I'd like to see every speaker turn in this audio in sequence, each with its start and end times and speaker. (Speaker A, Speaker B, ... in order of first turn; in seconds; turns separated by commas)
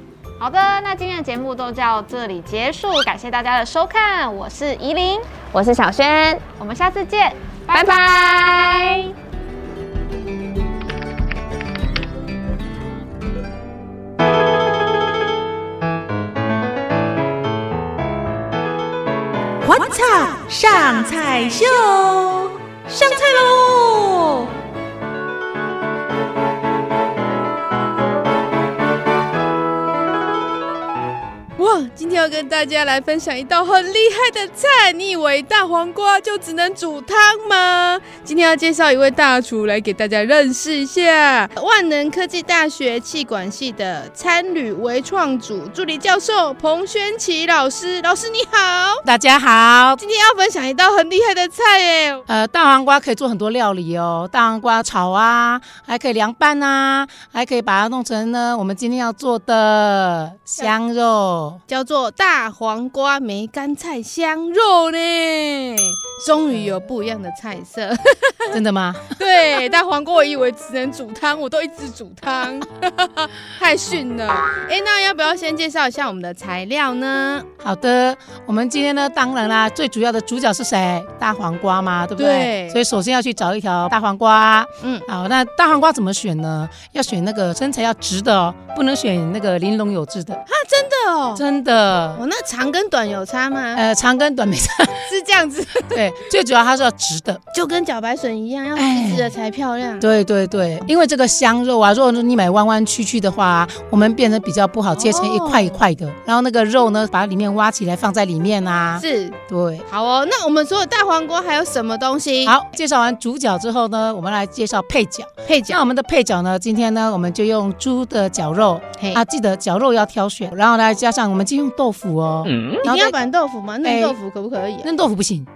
Speaker A: 0.4-5.3, Speaker B: 5.5-6.4, Speaker A: 6.6-8.8, Speaker B: 7.7-9.0, Speaker C: 19.6-24.5, Speaker D: 31.6-49.0, Speaker E: 49.0-50.0, Speaker D: 50.0-52.2, Speaker E: 52.3-61.6, Speaker D: 61.7-68.6, Speaker E: 68.5-69.2, Speaker D: 69.2-77.5, Speaker E: 77.6-90.4, Speaker D: 82.2-82.8, Speaker D: 90.5-91.4, Speaker E: 91.3-92.2, Speaker D: 92.2-93.8, Speaker E: 93.8-95.1, Speaker D: 95.1-96.0, Speaker E: 95.9-97.4, Speaker D: 97.5-100.1, Speaker E: 98.8-99.3, Speaker E: 100.0-109.8, Speaker D: 105.0-105.8, Speaker D: 109.0-109.4, Speaker D: 109.9-112.5, Speaker E: 112.5-123.2, Speaker D: 115.5-115.8, Speaker D: 122.8-124.9, Speaker E: 123.8-124.2, Speaker E: 124.8-125.5